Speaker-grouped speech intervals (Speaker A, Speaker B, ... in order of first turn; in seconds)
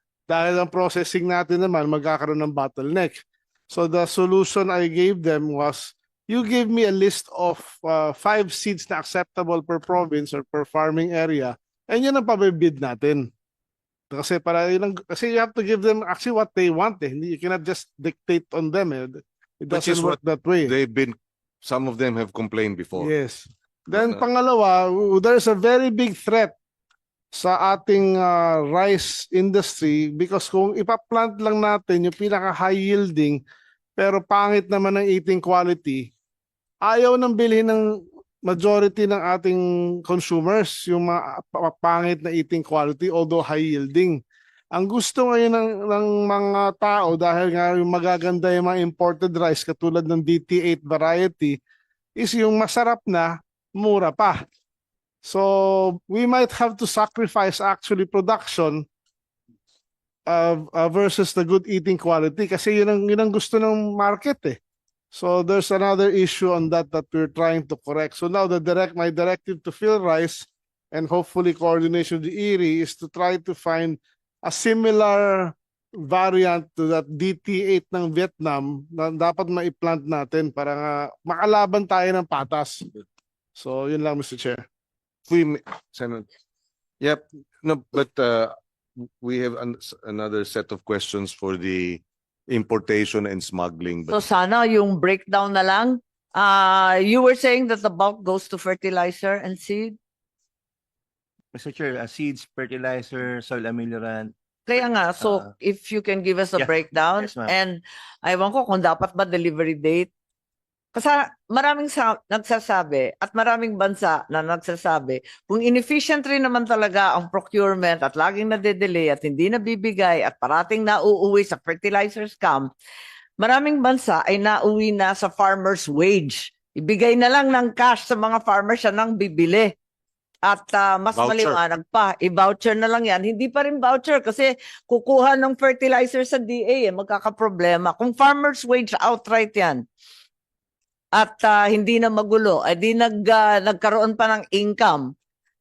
Speaker A: 0.3-13.3, 14.1-20.7, 23.0-26.5, 27.3-33.4, 34.0-36.1, 36.8-44.2, 44.7-51.6, 52.2-54.5, 55.2-58.8, 60.3-64.6, 65.1-82.9, 83.5-84.6
Speaker B: 19.7-23.1, 23.9-24.2, 85.3-86.3, 87.0-94.2, 131.2-131.6
Speaker C: 94.1-99.9, 104.7-110.1, 110.9-122.7, 123.4-129.7, 130.5-139.8, 141.2-145.1
Speaker D: 101.5-105.5, 106.6-107.5